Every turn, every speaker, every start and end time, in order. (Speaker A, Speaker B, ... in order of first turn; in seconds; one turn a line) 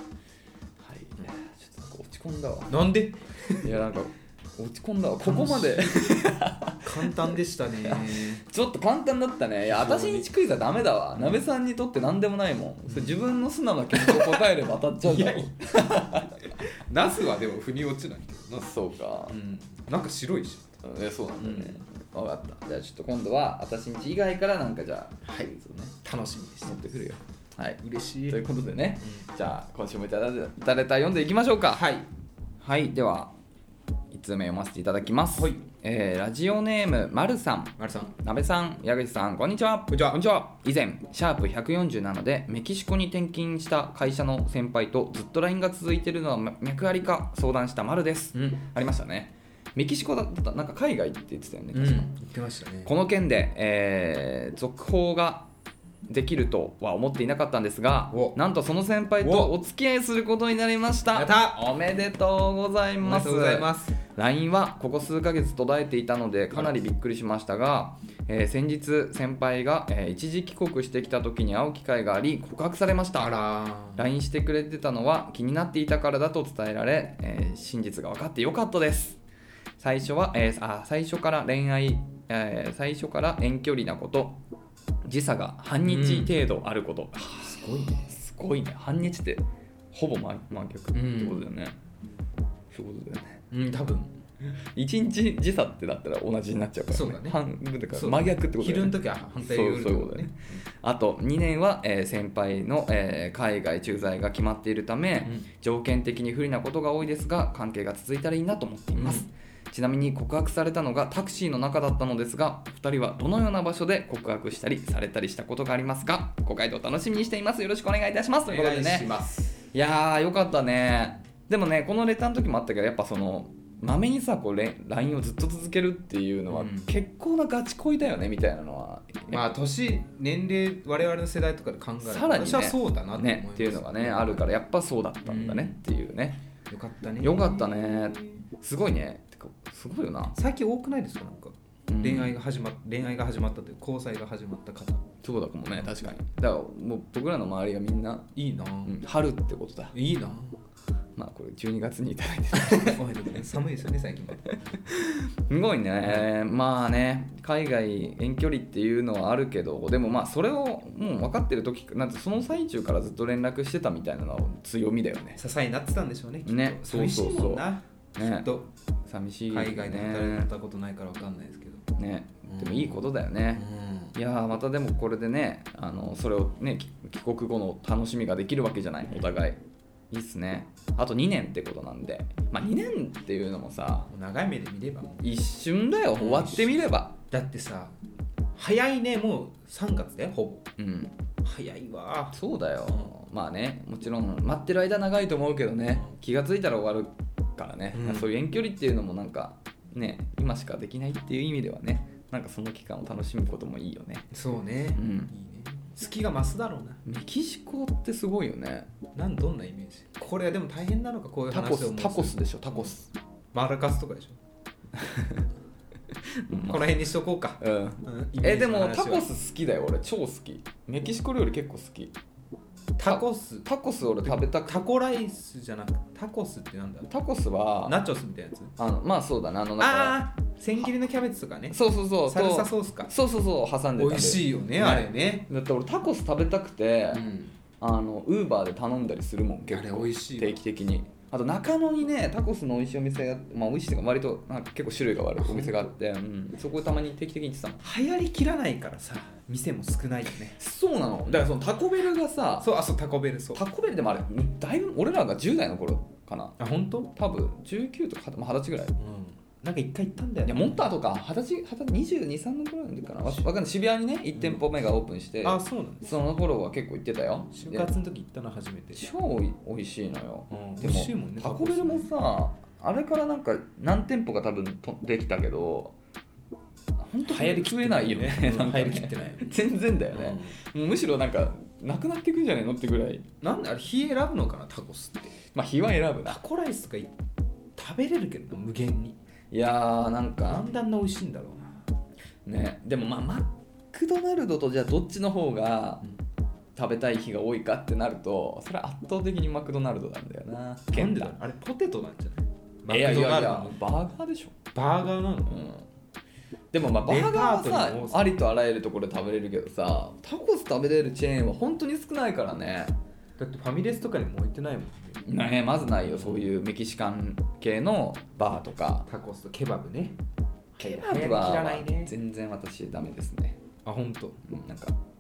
Speaker A: 0.8-2.8
Speaker B: 2.7-3.8
Speaker A: 3.6-7.1
Speaker B: 5.2-8.4
Speaker A: 7.8-16.5
Speaker B: 9.7-10.3
Speaker B: 11.2-11.4
Speaker B: 12.9-13.2
Speaker B: 13.9-14.4
Speaker B: 15.0-18.7
Speaker A: 18.6-19.4
Speaker B: 19.3-20.8
Speaker A: 20.8-25.9
Speaker B: 21.4-21.8
Speaker B: 25.2-27.1
Speaker A: 26.6-31.8
Speaker B: 27.8-28.4
Speaker B: 29.0-29.3
Speaker B: 31.7-32.1
Speaker A: 32.6-33.3
Speaker A: 34.1-52.1
Speaker B: 35.3-35.6
Speaker B: 37.8-38.1
Speaker B: 39.9-40.2
Speaker B: 48.3-48.6
Speaker B: 51.7-52.9
Speaker A: 52.9-55.5
Speaker A: 56.1-73.3
Speaker B: 58.1-58.4
Speaker B: 59.2-59.5
Speaker B: 61.1-61.6
Speaker B: 63.0-64.0
Speaker B: 73.2-74.0
Speaker A: 74.0-79.2
Speaker A: 79.8-84.4
Speaker A: 85.0-91.8
Speaker B: 85.8-86.3
Speaker B: 87.4-88.2
Speaker B: 90.9-91.4
Speaker A: 92.7-93.4
Speaker B: 93.5-94.1
Speaker A: 94.5-119.2
Speaker B: 96.9-97.4
Speaker B: 97.9-100.6
Speaker B: 109.0-109.3
Speaker B: 118.5-119.5
Speaker A: 119.7-129.4
Speaker B: 126.5-126.9
Speaker B: 129.3-134.5
Speaker A: 132.0-136.4
Speaker B: 135.2-135.8
Speaker B: 136.7-138.0
Speaker A: 137.2-140.4
Speaker B: 140.3-145.1
Speaker A: 141.9-142.3
Speaker A: 145.2-148.3
Speaker B: 148.3-149.0
Speaker A: 148.8-149.9
Speaker B: 149.9-150.6
Speaker A: 151.2-153.0
Speaker B: 152.6-154.6
Speaker A: 154.7-165.4
Speaker B: 165.4-168.7
Speaker A: 166.4-168.5
Speaker A: 169.0-170.5
Speaker B: 169.5-171.8
Speaker A: 171.9-184.1
Speaker B: 172.5-174.1
Speaker B: 184.1-185.3
Speaker A: 185.2-187.2
Speaker B: 186.1-187.9
Speaker B: 188.6-190.7
Speaker A: 190.8-191.2
Speaker B: 191.4-193.1
Speaker A: 192.3-204.3
Speaker B: 197.9-198.3
Speaker B: 204.3-207.0
Speaker A: 204.9-205.3
Speaker A: 207.0-208.9
Speaker B: 209.1-212.9
Speaker A: 211.5-213.0
Speaker B: 213.5-214.4
Speaker A: 214.9-215.4
Speaker A: 216.2-216.9
Speaker B: 216.7-219.3
Speaker A: 217.6-222.1
Speaker B: 223.0-223.7
Speaker A: 223.0-224.7
Speaker B: 224.2-227.1
Speaker A: 227.1-228.0
Speaker B: 227.8-228.7
Speaker A: 228.8-230.2
Speaker B: 229.8-233.1
Speaker A: 231.7-237.2
Speaker B: 234.0-235.5
Speaker B: 237.1-237.5
Speaker A: 237.8-247.8
Speaker B: 239.7-240.6
Speaker B: 245.4-245.8
Speaker B: 247.8-250.6
Speaker A: 250.6-252.7
Speaker B: 252.6-253.6
Speaker A: 253.5-256.6
Speaker B: 256.6-257.1
Speaker A: 257.1-259.0
Speaker B: 259.0-260.7
Speaker A: 260.4-267.9
Speaker B: 264.4-264.6
Speaker B: 265.4-266.1
Speaker B: 267.5-269.0
Speaker A: 268.9-275.9
Speaker B: 270.5-272.1
Speaker A: 277.0-283.2
Speaker B: 277.2-279.6
Speaker B: 280.1-280.6
Speaker B: 283.4-285.4
Speaker A: 285.5-286.4
Speaker B: 286.2-287.1
Speaker B: 287.8-289.2
Speaker A: 289.5-290.6
Speaker B: 290.4-291.8
Speaker A: 292.4-296.0
Speaker A: 296.8-301.3
Speaker B: 300.9-303.8
Speaker A: 302.9-304.5
Speaker B: 304.7-305.7
Speaker A: 305.5-305.8
Speaker A: 306.7-312.9
Speaker B: 307.0-308.4
Speaker B: 313.4-315.2
Speaker A: 315.2-319.1
Speaker B: 316.1-316.5
Speaker B: 319.1-320.2
Speaker B: 320.8-322.1
Speaker A: 320.8-323.6
Speaker B: 323.8-324.4
Speaker A: 324.4-325.0